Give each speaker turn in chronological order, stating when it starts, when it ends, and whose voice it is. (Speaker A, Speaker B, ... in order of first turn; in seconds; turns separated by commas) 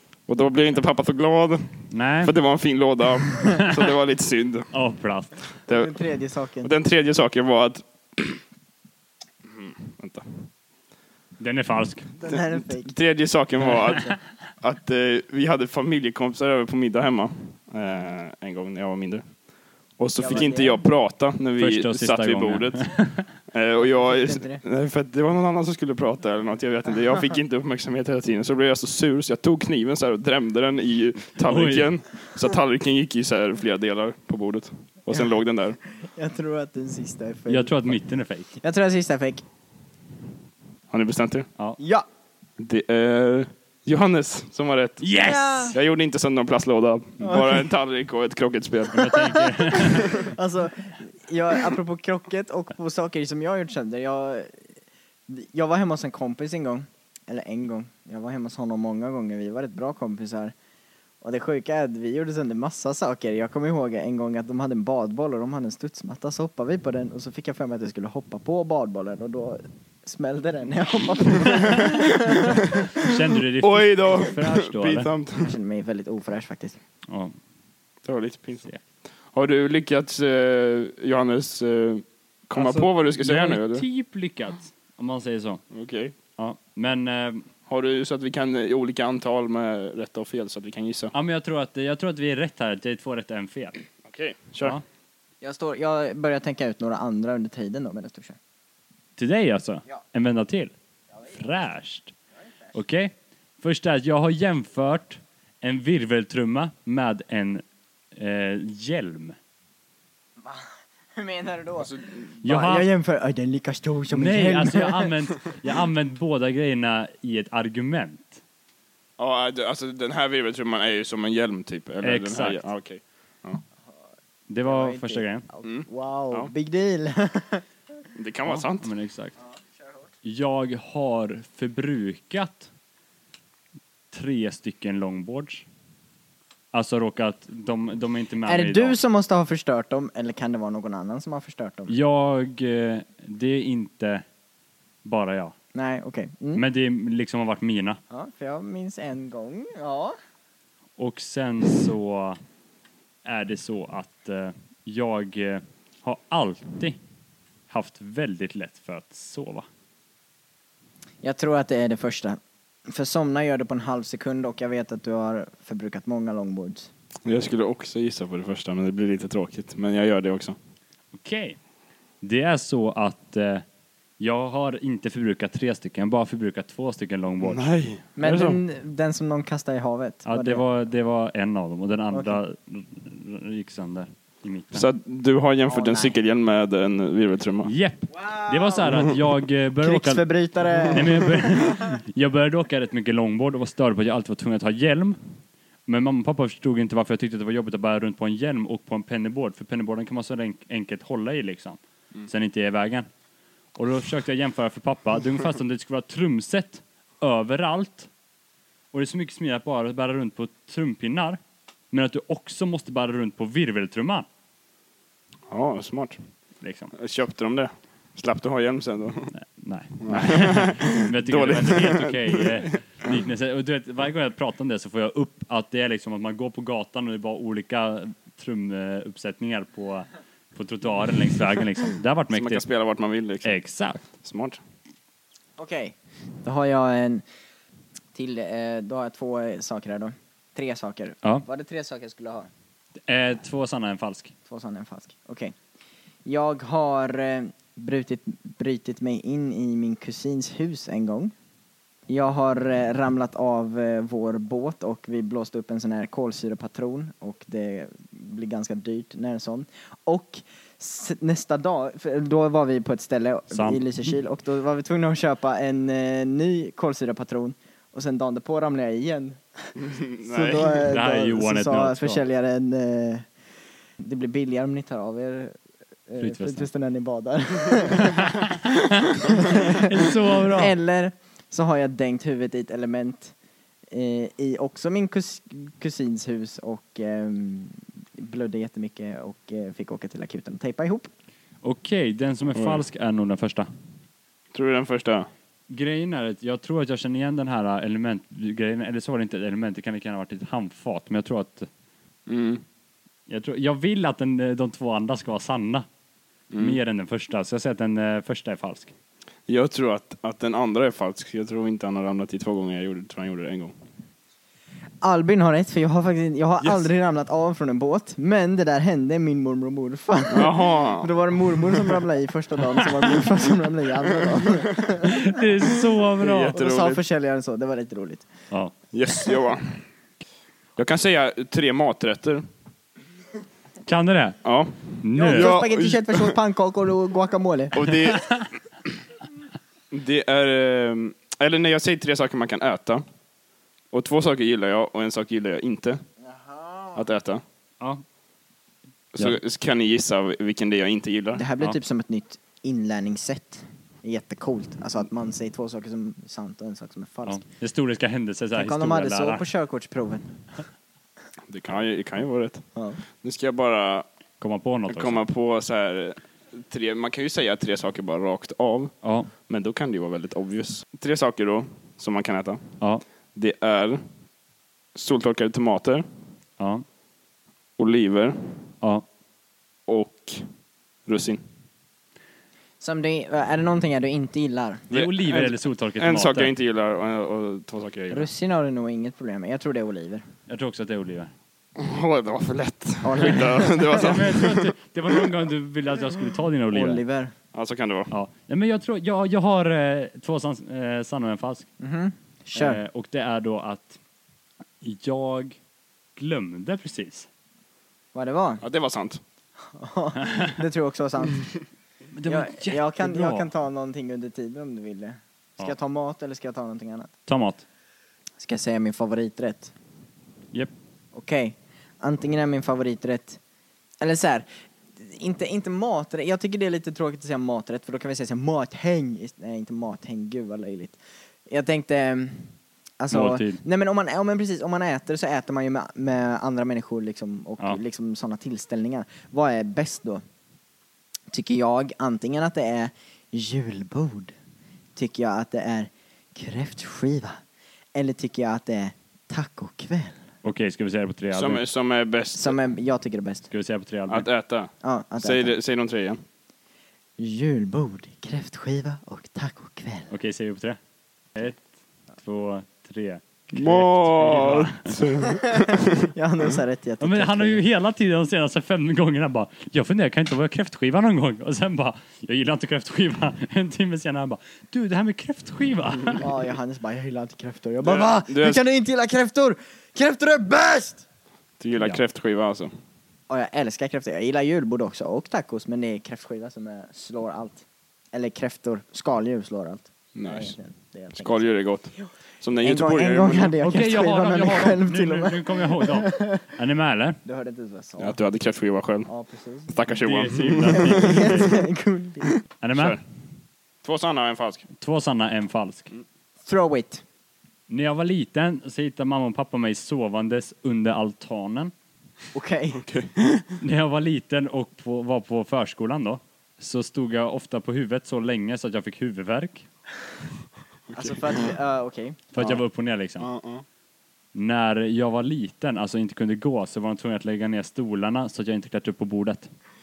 Speaker A: 0.3-4.7, Speaker B: 1.9-2.3, Speaker B: 4.7-5.4, Speaker A: 5.7-6.0, Speaker C: 5.7-6.7, Speaker A: 6.6-8.4, Speaker A: 9.5-10.2, Speaker B: 11.4-12.1, Speaker C: 12.2-12.9, Speaker A: 12.3-19.3, Speaker A: 20.0-22.9, Speaker C: 20.2-20.8, Speaker B: 21.6-23.3, Speaker A: 23.5-35.8, Speaker C: 23.9-24.6, Speaker B: 31.4-31.9, Speaker C: 36.0-38.0, Speaker B: 37.5-38.5, Speaker C: 38.6-39.4, Speaker A: 40.9-41.5, Speaker C: 41.8-42.0, Speaker A: 42.6-45.1, Speaker B: 45.0-45.7, Speaker C: 45.2-45.8, Speaker A: 45.7-49.1, Speaker C: 47.2-47.7, Speaker B: 48.9-50.2, Speaker A: 49.8-50.2, Speaker C: 49.9-54.7, Speaker C: 55.3-60.5, Speaker C: 61.2-72.6, Speaker B: 73.0-75.1, Speaker A: 73.6-75.5, Speaker C: 75.4-76.8, Speaker B: 77.1-77.3, Speaker A: 78.0-78.7, Speaker A: 79.3-83.8, Speaker B: 82.5-85.6, Speaker A: 85.7-86.1, Speaker B: 86.4-87.5, Speaker A: 87.7-91.1, Speaker B: 91.1-93.8, Speaker A: 94.0-94.8, Speaker C: 95.4-98.4, Speaker B: 99.2-100.7, Speaker B: 101.2-102.1, Speaker B: 102.7-107.6, Speaker B: 108.1-109.3, Speaker C: 111.2-111.9, Speaker A: 111.8-112.3, Speaker B: 112.4-112.9, Speaker C: 112.4-115.1, Speaker B: 114.1-118.4, Speaker A: 119.2-123.6, Speaker B: 122.0-122.6, Speaker B: 124.5-125.4, Speaker C: 124.6-127.6, Speaker A: 125.6-126.5, Speaker A: 128.2-128.9, Speaker B: 128.4-129.3, Speaker B: 130.2-132.7, Speaker B: 134.1-135.7, Speaker B: 136.7-139.0, Speaker C: 138.4-141.9, Speaker B: 141.9-144.2, Speaker B: 145.0-145.5, Speaker C: 145.7-146.6, Speaker B: 146.5-148.0, Speaker C: 148.1-150.1, Speaker B: 151.0-152.4, Speaker B: 153.2-157.0, Speaker B: 157.7-159.7, Speaker C: 161.2-166.9, Speaker A: 167.2-170.6, Speaker B: 171.1-171.6, Speaker B: 172.2-173.6, Speaker B: 174.2-177.6, Speaker A: 177.4-178.6, Speaker C: 178.2-180.6, Speaker B: 180.2-184.9, Speaker C: 182.1-182.4, Speaker A: 184.7-187.7, Speaker C: 185.7-186.2, Speaker B: 187.6-195.2, Speaker C: 188.2-188.7, Speaker C: 189.8-191.6, Speaker B: 195.9-203.1, Speaker B: 203.7-208.1, Speaker B: 208.9-211.4, Speaker B: 211.9-214.3, Speaker A: 215.5-216.2, Speaker B: 216.6-216.9, Speaker A: 216.9-219.3, Speaker B: 219.3-232.6, Speaker A: 220.0-222.8, Speaker A: 232.3-233.6, Speaker B: 233.4-234.1, Speaker A: 234.2-234.6, Speaker C: 235.6-237.2, Speaker C: 238.1-242.5, Speaker B: 243.1-244.3, Speaker C: 244.5-245.5, Speaker C: 246.2-251.3, Speaker C: 252.1-269.7, Speaker B: 263.5-263.9, Speaker A: 269.8-270.8, Speaker C: 270.2-273.3, Speaker B: 270.9-272.2, Speaker C: 274.0-275.6, Speaker C: 276.1-278.4, Speaker B: 276.2-276.6, Speaker C: 279.3-279.6, Speaker B: 279.5-280.7, Speaker C: 280.5-283.3, Speaker C: 283.9-291.1, Speaker B: 291.6-293.7, Speaker A: 292.5-292.8, Speaker A: 294.5-295.3, Speaker B: 295.7-301.7, Speaker A: 302.3-302.6, Speaker B: 303.3-305.9, Speaker A: 306.5-306.8, Speaker B: 306.6-308.9, Speaker A: 309.5-313.7, Speaker C: 315.0-325.2, Speaker A: 320.3-321.1, Speaker B: 325.0-326.6, Speaker A: 326.2-327.0, Speaker C: 326.5-328.3, Speaker A: 328.9-329.6, Speaker A: 330.8-332.4, Speaker B: 333.8-334.4, Speaker A: 334.4-336.4, Speaker B: 335.0-335.6, Speaker C: 335.2-338.1, Speaker A: 337.7-338.2, Speaker A: 339.9-343.0, Speaker A: 343.9-346.0, Speaker C: 346.2-347.0, Speaker A: 346.9-347.4, Speaker A: 349.1-351.4, Speaker C: 351.3-357.4, Speaker B: 357.2-359.4, Speaker C: 358.5-360.2, Speaker A: 361.5-362.7, Speaker A: 363.2-364.0, Speaker B: 364.4-365.2, Speaker A: 364.9-368.9, Speaker B: 369.0-369.3, Speaker A: 369.5-372.6, Speaker A: 373.3-374.0, Speaker A: 374.9-376.0, Speaker B: 376.6-376.8, Speaker A: 377.8-378.4, Speaker A: 379.9-380.4, Speaker A: 381.1-381.4, Speaker C: 382.8-384.8, Speaker B: 384.9-386.5, Speaker A: 384.9-388.3, Speaker C: 388.1-390.2, Speaker B: 390.5-391.3, Speaker A: 391.8-394.7, Speaker C: 393.0-394.2, Speaker B: 393.2-397.0, Speaker C: 396.7-397.3, Speaker A: 397.5-398.1, Speaker B: 398.1-401.7, Speaker C: 401.8-402.8, Speaker B: 402.5-404.0, Speaker B: 404.8-405.6, Speaker B: 406.1-407.3, Speaker C: 408.1-408.6, Speaker A: 408.6-409.2, Speaker C: 409.7-411.5, Speaker B: 412.1-413.5, Speaker C: 412.2-417.1, Speaker B: 417.2-417.6, Speaker C: 418.4-419.7, Speaker C: 421.1-423.4, Speaker C: 424.0-440.2, Speaker B: 433.1-433.6, Speaker C: 441.3-444.3, Speaker C: 444.9-447.4, Speaker C: 447.9-450.2, Speaker B: 450.4-451.6, Speaker A: 451.3-452.6, Speaker C: 452.3-453.5, Speaker B: 453.5-454.3, Speaker A: 454.1-456.2, Speaker C: 454.8-455.6, Speaker C: 457.2-460.1, Speaker B: 460.1-460.8, Speaker B: 461.4-461.6, Speaker B: 462.2-464.9, Speaker A: 463.5-466.1, Speaker C: 466.1-467.6, Speaker B: 467.0-476.2, Speaker C: 476.2-481.0, Speaker A: 477.8-478.6, Speaker A: 481.6-482.7, Speaker C: 483.3-491.4, Speaker A: 490.1-490.6, Speaker A: 491.1-493.5, Speaker C: 492.6-496.3, Speaker B: 493.6-497.2, Speaker C: 497.2-498.2, Speaker A: 498.0-499.1, Speaker C: 499.1-499.8, Speaker A: 499.7-501.6, Speaker B: 500.0-501.5, Speaker C: 500.7-502.4, Speaker B: 502.6-503.0, Speaker A: 502.8-503.0, Speaker A: 503.8-504.6, Speaker B: 504.8-505.9, Speaker C: 506.4-507.0, Speaker B: 507.7-511.7, Speaker C: 512.3-512.8, Speaker A: 512.7-513.5, Speaker B: 513.6-519.7, Speaker A: 520.9-521.5, Speaker C: 520.9-522.3, Speaker B: 522.3-523.3, Speaker A: 523.2-523.6, Speaker B: 524.3-529.5